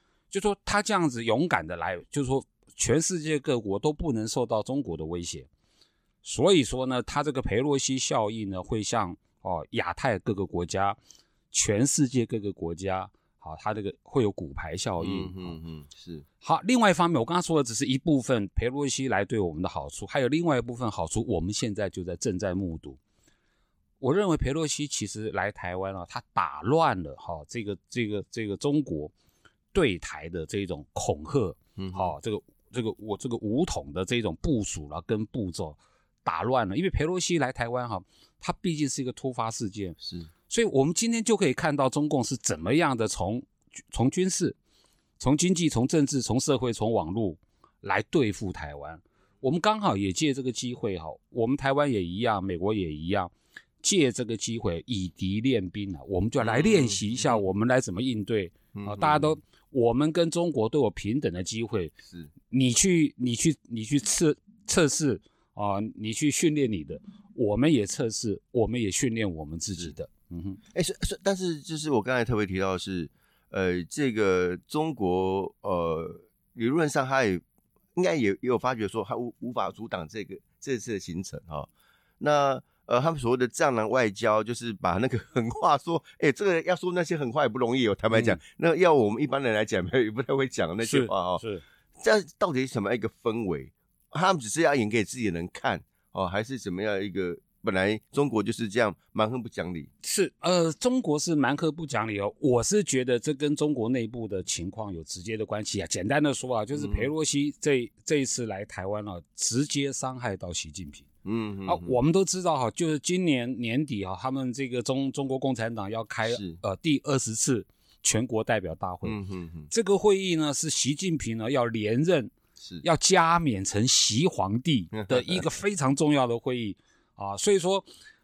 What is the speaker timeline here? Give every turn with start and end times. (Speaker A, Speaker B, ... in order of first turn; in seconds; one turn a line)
Speaker A: 0.3-5.5
Speaker A: 6.2-11.0
Speaker A: 11.5-15.6
Speaker B: 15.0-16.2
Speaker A: 16.4-23.0
Speaker A: 24.0-29.1
Speaker A: 29.7-40.0
Speaker B: 31.8-32.1
Speaker B: 40.0-40.3
Speaker A: 40.5-44.6
Speaker A: 45.2-61.9
Speaker B: 56.4-57.4
Speaker B: 58.7-59.4
Speaker A: 62.5-70.6
Speaker B: 70.7-77.4
Speaker B: 77.9-81.7
Speaker B: 82.2-91.4
Speaker A: 88.1-88.4
Speaker A: 90.8-91.6
Speaker B: 92.0-99.9
Speaker A: 100.0-111.1
Speaker B: 106.7-107.1
Speaker B: 111.2-112.0
Speaker A: 111.7-119.2
Speaker B: 116.2-116.6
Speaker B: 119.0-119.7
Speaker A: 119.7-127.8
Speaker B: 122.6-122.8
Speaker B: 124.9-125.4